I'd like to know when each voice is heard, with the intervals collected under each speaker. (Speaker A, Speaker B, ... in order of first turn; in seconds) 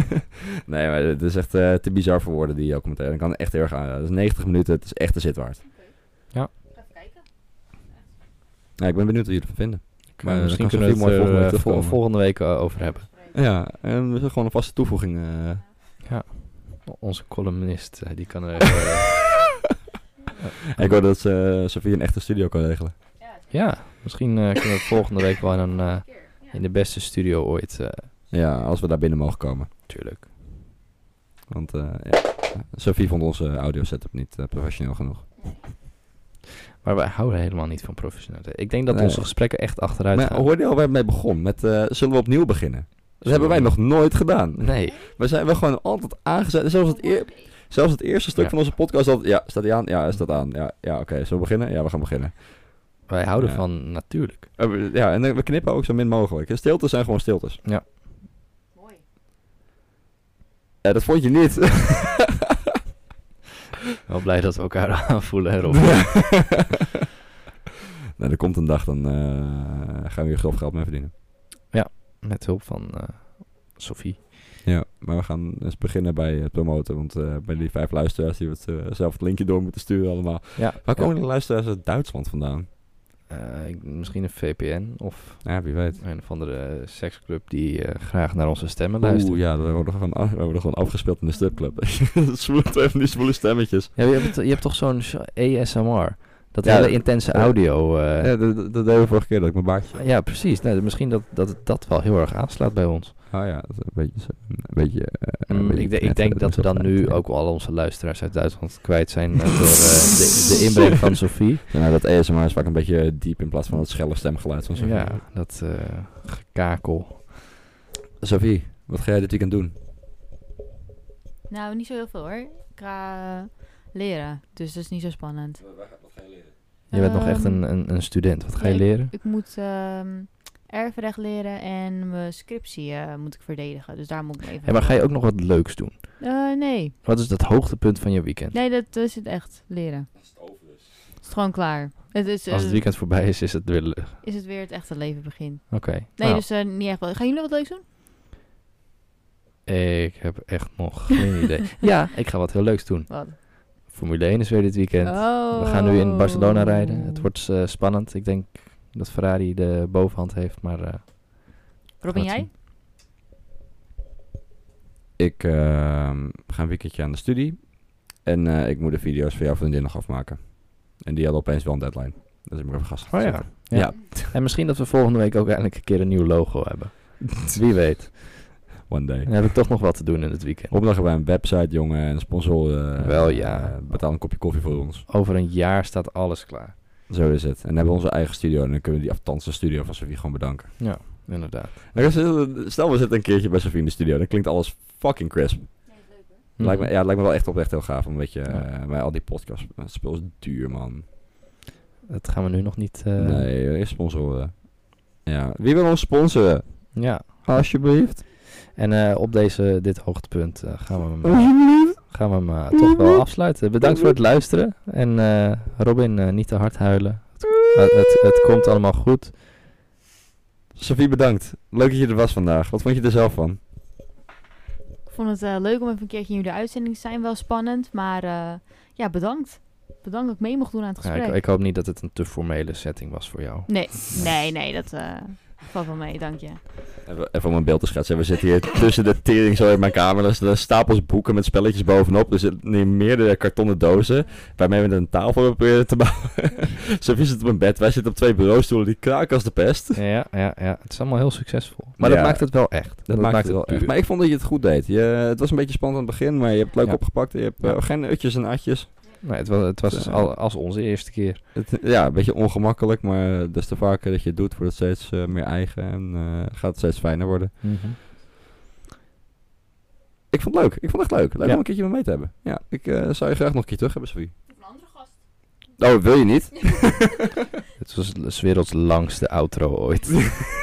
Speaker A: 0.7-5.6, 8.8-12.0, 13.3-15.6, 20.7-23.0, 28.3-29.7, 31.5-35.3, 38.9-54.0, 54.5-57.6, 60.8-62.3, 65.9-66.6, 68.2-71.1, 74.6-82.7, 85.4-86.0, 89.0-94.3, 96.6-100.1, 103.3-107.2, 111.7-115.2, 118.2-119.8, 125.8-126.5, 165.2-174.4, 178.8-179.7, 180.7-185.1, 187.1-191.2, 191.9-195.8, 196.6-201.1, 203.2-208.2, 211.5-211.9, 212.8-213.2, 213.8-214.1, 220.8-223.6, 237.0-250.0, 252.0-259.3, 259.9-260.4, 261.5-267.9, 270.3-274.3, 275.8-277.3
Speaker B: 10.2-13.1, 16.0-19.3, 20.4-21.0, 23.5-28.1, 29.9-30.3, 36.8-40.5, 43.2-45.0, 53.1-54.5, 64.0-66.6, 71.7-74.4, 80.6-81.1, 83.3-89.4, 94.0-98.3, 99.9-103.2, 105.5-111.7, 114.8-117.5, 126.9-129.1, 134.6-136.2, 137.0-138.6, 142.5-144.2, 145.7-146.4, 149.7-162.5, 173.1-180.7, 183.0-184.1, 185.1-186.8, 190.8-191.9, 196.6-196.9, 202.1-203.5, 206.9-207.5, 208.4-219.3, 231.0-234.3, 249.9-253.9, 256.8-257.8, 259.2-261.4, 267.6-268.0, 277.8-280.4
Speaker C: 121.5-125.6, 126.9-127.8, 128.6-135.0, 136.2-136.9, 138.5-140.1, 141.2-142.8, 144.2-147.8, 153.1-153.4, 155.0-157.2, 162.0-162.5, 225.1-231.4, 233.7-236.6, 274.6-275.1